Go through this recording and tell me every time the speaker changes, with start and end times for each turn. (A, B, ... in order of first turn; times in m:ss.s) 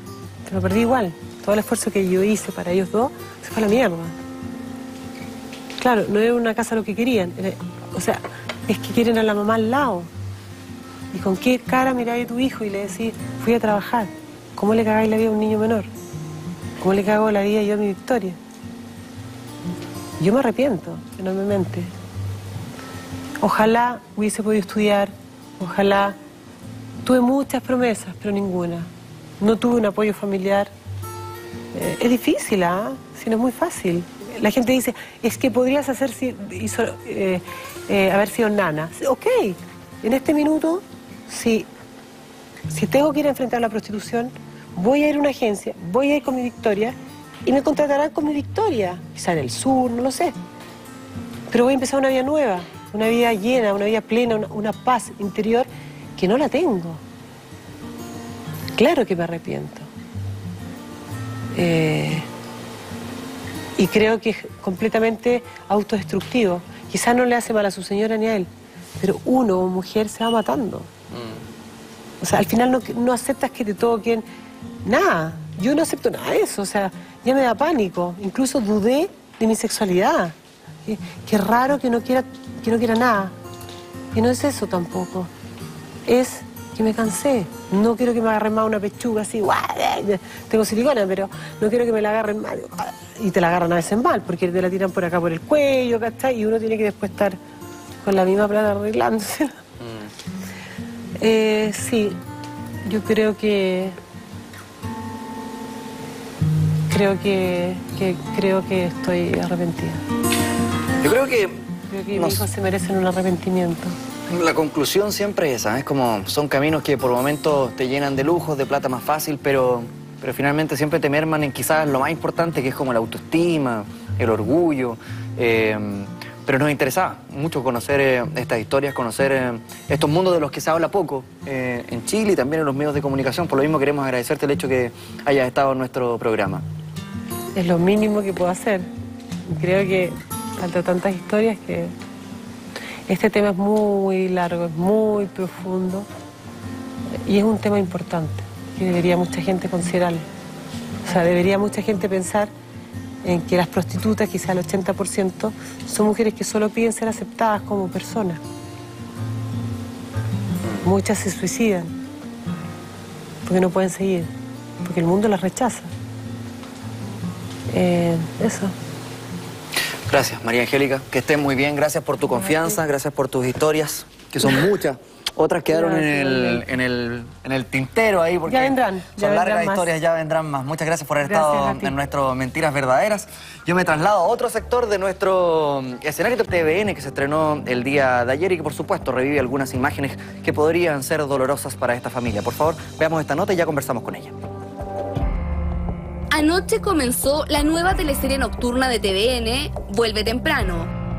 0:00.4-0:04.2 A
0:05.8-0:10.1 A
0:11.1-0:15.9 A
0:16.8-0:18.4 A
0:20.2-0:21.9 A
0:23.4-0:26.2 A
0:27.0-0:28.9 A
0:29.4-0:30.7 A
0:31.7-0:41.7 A
0:42.7-0:50.4 A
0:51.5-0:57.0 A
0:58.8-0:59.9 A
1:01.5-1:02.3 A
1:03.8-1:10.9 A
1:11.1-1:11.4 B
1:12.2-1:14.2 A
1:14.8-1:23.4 A
1:24.1-1:25.3 A
1:26.1-1:37.4 A
1:38.0-1:39.6 A
1:39.8-1:40.1 B
1:41.2-1:42.2 A
1:42.8-1:44.0 A
1:46.9-1:50.0 A
1:51.0-1:52.5 B
1:51.9-1:54.0 A
1:54.3-2:16.6 B
2:17.6-2:18.9 A
2:19.5-2:21.9 A
2:23.1-2:26.1 A
2:27.2-2:30.3 A
2:31.0-2:32.5 A
2:33.2-2:38.4 A
2:40.8-2:42.0 A
2:43.4-2:44.3 A
2:44.8-2:45.9 A
2:47.7-2:48.8 A
2:50.1-3:14.4 B
2:55.7-2:56.6 A
2:58.5-2:59.9 A
3:01.2-3:02.0 A
3:16.3-3:20.9 C